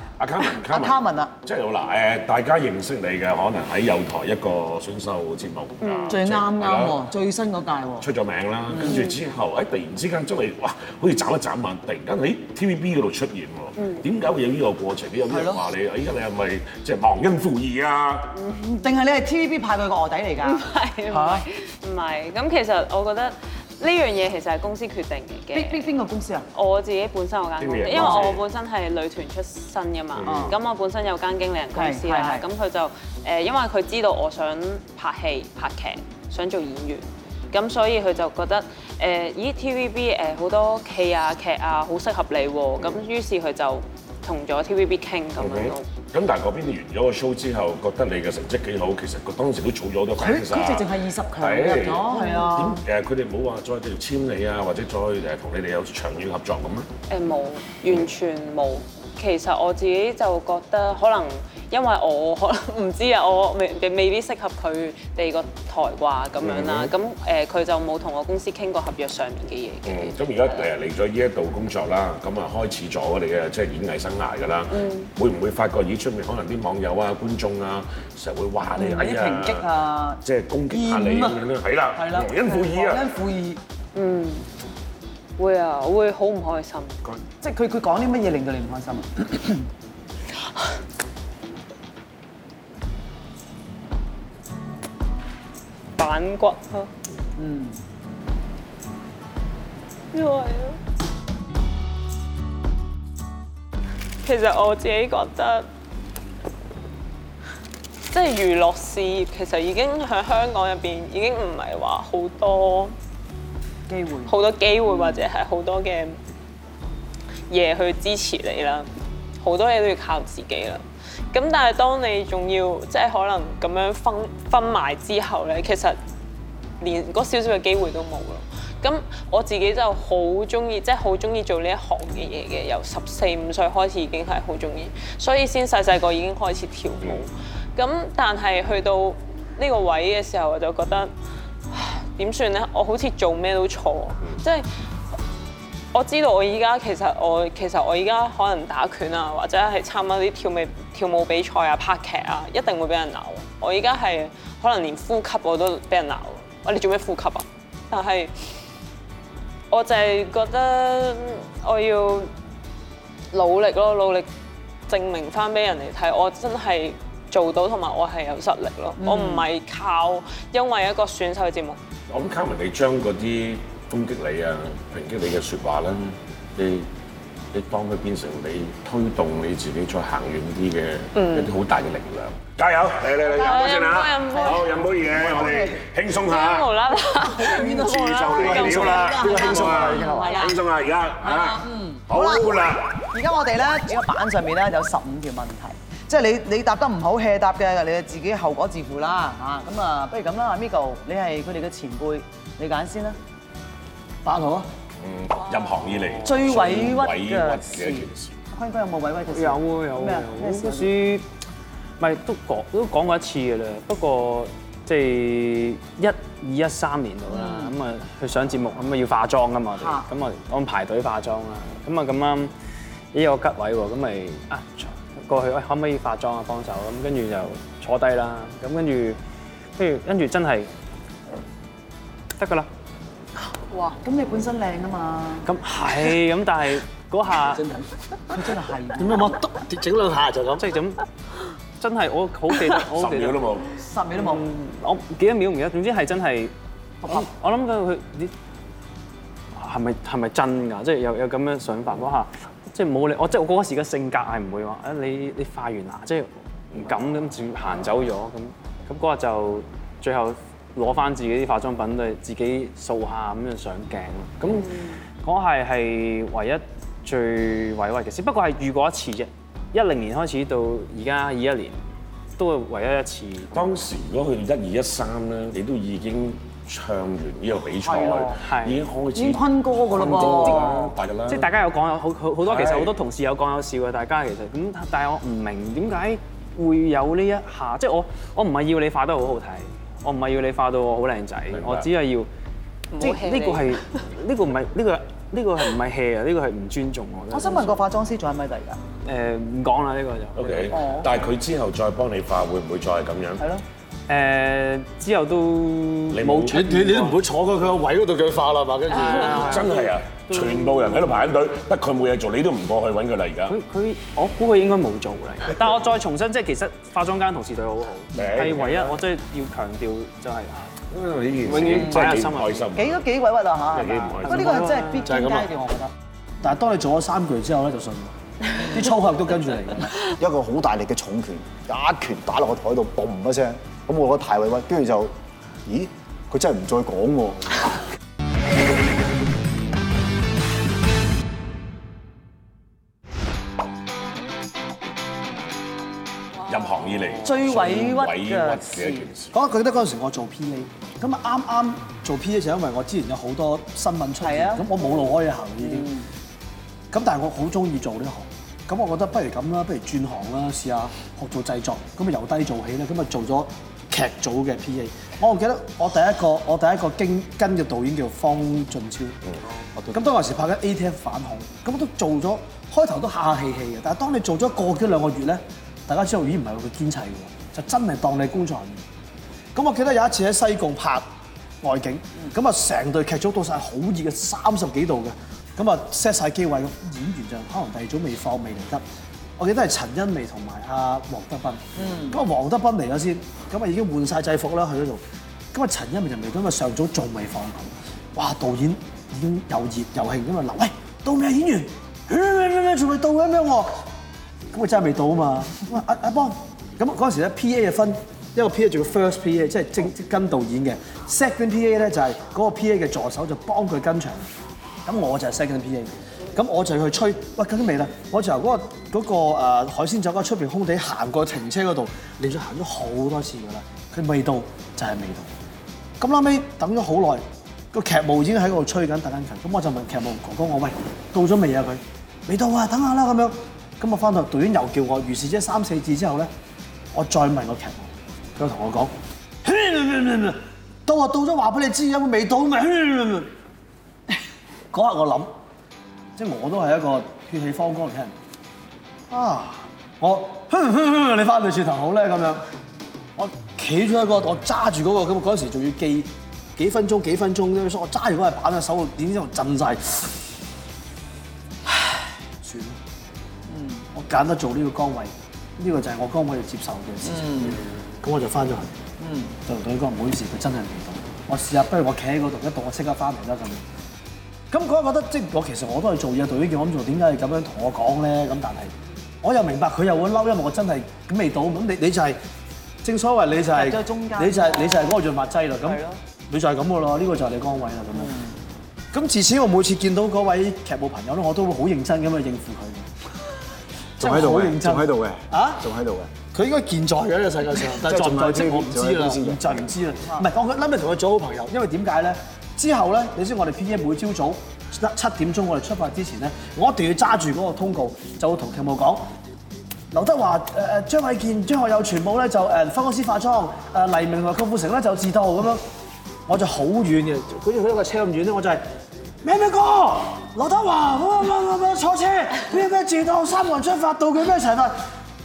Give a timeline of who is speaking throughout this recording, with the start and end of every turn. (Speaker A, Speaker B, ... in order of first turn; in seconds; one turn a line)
Speaker A: 0.2-7.0
Speaker B: 0.6-1.3
Speaker C: 5.8-6.2
Speaker B: 6.1-8.1
Speaker A: 8.0-18.3
Speaker B: 8.7-9.0
Speaker C: 8.8-9.1
Speaker B: 15.3-15.6
Speaker C: 18.3-18.9
Speaker B: 18.8-20.6
Speaker C: 20.4-25.9
Speaker D: 21.1-21.4
Speaker B: 25.5-26.4
Speaker C: 26.5-45.9
Speaker A: 27.6-28.4
Speaker A: 30.1-30.6
Speaker B: 30.2-30.6
Speaker B: 31.7-32.4
Speaker A: 45.4-56.9
Speaker B: 50.2-52.8
Speaker C: 52.1-52.7
Speaker C: 57.1-70.7
Speaker A: 66.4-66.9
Speaker A: 69.8-79.7
Speaker C: 74.7-75.1
Speaker B: 78.7-81.4
Speaker A: 80.2-83.1
Speaker B: 82.0-83.6
Speaker C: 83.9-84.4
Speaker C: 85.4-87.0
Speaker B: 87.4-89.7
Speaker C: 96.0-96.9
Speaker B: 97.4-97.8
Speaker C: 100.1-100.8
Speaker C: 104.2-105.7
Speaker C: 108.1-112.9
Speaker B: 113.9-115.3
Speaker C: 114.3-116.2
Speaker C: 117.5-118.9
Speaker C: 119.4-126.0
Speaker C: 126.8-141.1
Speaker C: 141.7-144.7
Speaker C: 145.9-158.3
Speaker C: 159.7-162.3
Speaker C: 163.3-164.3
Speaker C: 164.9-171.8
Speaker B: 169.0-169.4
Speaker A: 172.1-176.9
Speaker A: 177.5-186.8
Speaker C: 181.1-181.5
Speaker C: 183.3-184.8
Speaker B: 183.4-185.8
Speaker C: 186.3-190.4
Speaker B: 187.3-190.6
Speaker A: 187.6-193.0
Speaker E: 189.0-190.3
Speaker B: 191.3-203.2
Speaker F: 204.2-204.7
Speaker A: 205.0-208.3
Speaker D: 205.9-206.4
Speaker B: 206.2-210.9
Speaker D: 209.3-211.2
Speaker D: 212.0-222.5
Speaker B: 217.3-217.7
Speaker B: 219.8-220.1
Speaker D: 223.1-229.2
Speaker D: 229.8-230.7
Speaker D: 232.4-232.7
Speaker B: 233.8-235.5
Speaker D: 235.4-237.7
Speaker F: 237.6-237.8
Speaker B: 238.3-239.3
Speaker F: 238.9-240.6
Speaker D: 240.6-241.0
Speaker D: 241.8-243.4
Speaker A: 242.9-243.7
Speaker B: 243.8-244.4
Speaker D: 244.1-248.3
Speaker D: 249.6-271.8
Speaker C: 264.5-264.9
Speaker D: 272.4-273.5
Speaker A: 273.5-281.5
Speaker B: 277.8-278.4
Speaker D: 278.4-278.8
Speaker B: 279.1-280.9
Speaker D: 279.9-292.3
Speaker A: 282.4-282.9
Speaker A: 291.5-291.9
Speaker C: 292.9-293.8
Speaker D: 293.0-297.8
Speaker B: 297.3-298.8
Speaker D: 299.0-300.9
Speaker A: 300.4-303.4
Speaker B: 300.7-301.1
Speaker D: 304.1-307.2
Speaker A: 306.1-306.6
Speaker F: 306.5-309.7
Speaker C: 308.9-309.3
Speaker D: 309.1-311.3
Speaker A: 309.2-313.6
Speaker D: 313.5-320.7
Speaker A: 318.1-319.0
Speaker A: 320.9-323.0
Speaker D: 321.4-322.7
Speaker B: 321.8-322.0
Speaker B: 322.8-325.9
Speaker A: 323.7-324.6
Speaker D: 324.2-325.3
Speaker F: 325.1-325.5
Speaker F: 326.4-329.9
Speaker E: 330.1-335.1
Speaker E: 335.6-337.6
Speaker A: 346.4-349.3
Speaker B: 347.2-349.1
Speaker F: 349.3-355.9
Speaker B: 354.2-354.7
Speaker B: 355.6-356.1
Speaker F: 356.9-369.2
Speaker F: 369.9-378.8
Speaker F: 379.5-381.1
Speaker F: 381.6-388.8
Speaker F: 389.4-395.0
Speaker B: 391.8-392.2
Speaker F: 395.5-403.7
Speaker F: 404.5-414.3
Speaker F: 414.9-425.3
Speaker F: 426.0-436.3
Speaker F: 436.9-438.9
Speaker F: 439.4-443.3
Speaker F: 444.7-445.3
Speaker F: 446.1-448.1
Speaker F: 449.1-452.4
Speaker F: 453.1-460.2
Speaker F: 462.4-462.8
Speaker B: 463.5-463.9
Speaker F: 463.9-468.8
Speaker B: 467.0-467.6
Speaker B: 469.0-469.4
Speaker F: 469.4-473.6
Speaker F: 474.5-482.2
Speaker F: 482.8-488.2
Speaker B: 483.5-484.9
Speaker B: 485.6-486.0
Speaker B: 487.9-488.4
Speaker F: 488.9-492.9
Speaker F: 494.0-495.6
Speaker E: 494.0-496.1
Speaker F: 496.2-509.0
Speaker E: 497.8-499.7
Speaker F: 509.9-515.6
Speaker F: 516.3-518.6
Speaker F: 519.2-524.7